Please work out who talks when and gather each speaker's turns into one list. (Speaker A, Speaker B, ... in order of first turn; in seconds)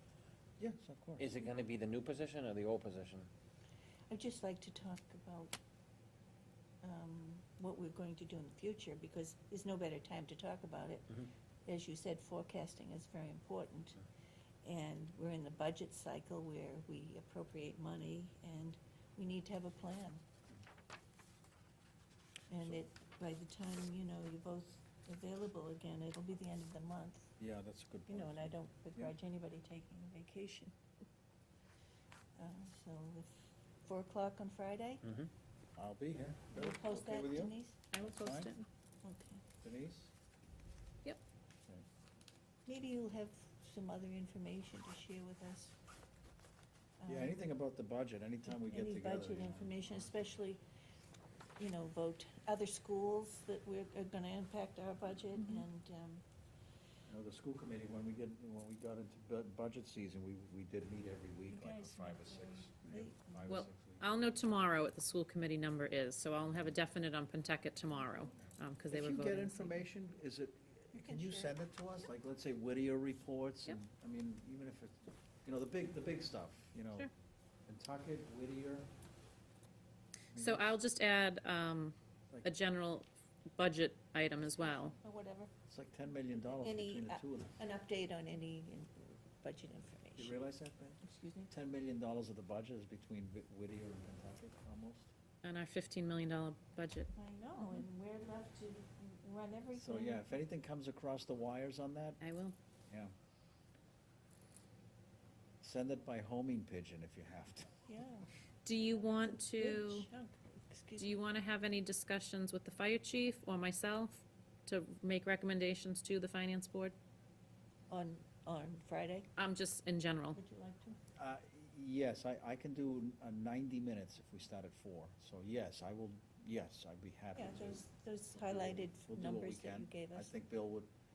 Speaker A: 0.6-1.4, 27.4-29.1, 35.8-38.5, 39.6-40.1, 47.1-50.1, 57.1-64.0, 68.9-77.1, 77.7-78.9, 80.3-80.8, 85.7-87.6, 90.2-95.1, 99.8-102.2, 105.6-107.8, 121.2-130.9
Speaker B: 1.2-3.3, 35.0-35.3
Speaker C: 4.1-5.5, 6.8-14.0, 14.6-20.2, 22.5-27.3, 28.1-30.8, 32.4-35.0, 36.5-37.8, 39.0-39.5, 42.7-45.8, 47.0-47.5, 48.5-50.6, 51.6-56.2, 61.5-63.6, 70.9-71.6, 84.6-85.5, 86.5-90.4, 91.0-91.5, 97.2-100.3, 107.9-111.2, 117.9-119.3, 120.3-121.0, 127.3-130.4
Speaker D: 37.9-38.7, 63.5-69.8, 80.4-85.0, 95.4-97.1, 102.2-102.6, 108.7-110.1, 111.0-116.9, 119.4-120.4